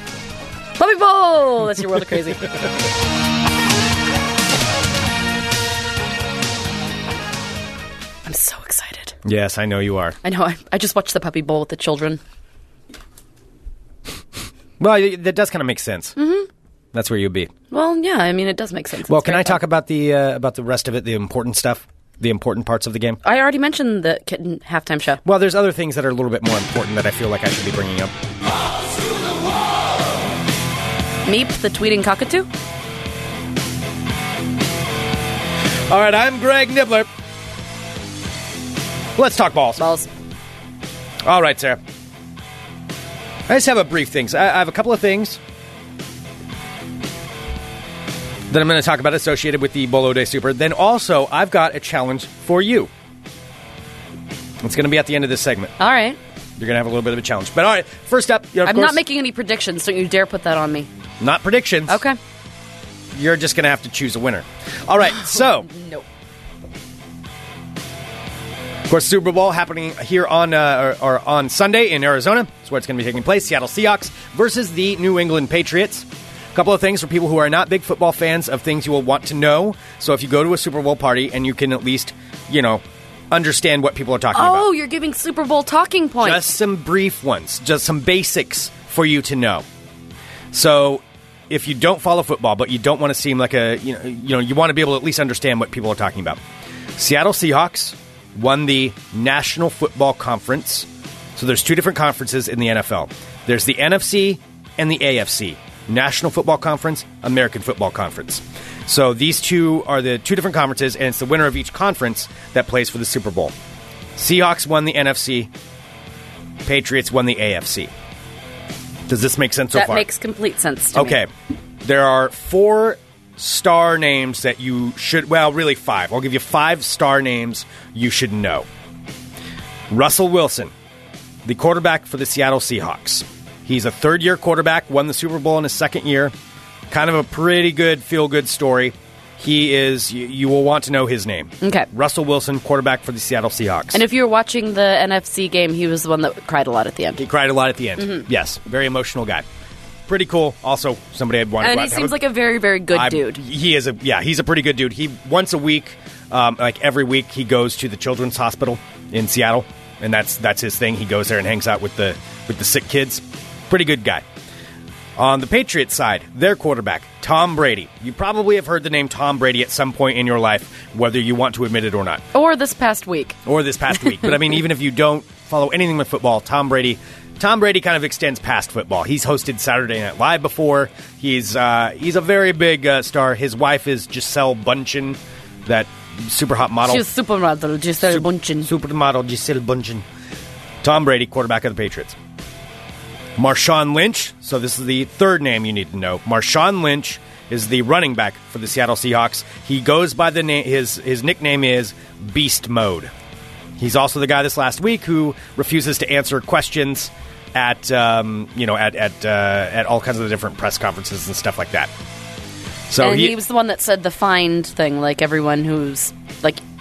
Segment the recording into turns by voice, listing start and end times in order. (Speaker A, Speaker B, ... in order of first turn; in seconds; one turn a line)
Speaker A: 0.8-2.5
Speaker A: 8.3-9.2
Speaker B: 9.2-10.2
Speaker A: 10.2-12.2
Speaker B: 14.8-16.2
Speaker A: 16.2-16.5
Speaker B: 16.9-17.5
Speaker A: 17.7-19.6
Speaker B: 19.1-23.2
Speaker A: 23.2-25.2
Speaker B: 25.2-28.1
Speaker A: 31.3-32.5
Speaker B: 35.9-37.1
Speaker B: 39.2-39.8
Speaker A: 39.8-40.1
Speaker B: 41.3-41.8
Speaker B: 43.5-45.4
Speaker B: 48.5-52.9
Speaker B: 54.6-55.7
Speaker A: 55.8-56.2
Speaker B: 56.6-59.0
Speaker A: 58.6-60.9
Speaker B: 61.2-62.0
Speaker A: 61.9-62.2
Speaker B: 63.1-65.7
Speaker A: 65.2-66.0
Speaker B: 68.9-84.7
Speaker A: 84.3-86.5
Speaker B: 86.2-89.7
Speaker B: 90.5-96.4
Speaker B: 97.0-113.5
Speaker B: 114.2-115.5
Speaker B: 116.6-117.9
Speaker B: 119.1-120.1
Speaker A: 119.7-121.2
Speaker B: 120.9-121.3
Speaker B: 121.8-128.7
Speaker B: 129.9-130.7
Speaker B: 131.4-136.3
Speaker B: 136.9-144.0
Speaker A: 141.6-141.9
Speaker A: 143.9-147.2
Speaker B: 147.2-149.4
Speaker B: 150.1-152.2
Speaker A: 151.6-153.4
Speaker B: 152.9-164.2
Speaker B: 165.2-172.2
Speaker A: 172.3-173.4
Speaker B: 173.5-187.0
Speaker A: 186.8-188.7
Speaker B: 188.0-190.1
Speaker B: 190.8-192.2
Speaker B: 193.4-203.1
Speaker B: 203.8-211.9
Speaker B: 212.9-213.4
Speaker A: 213.0-216.6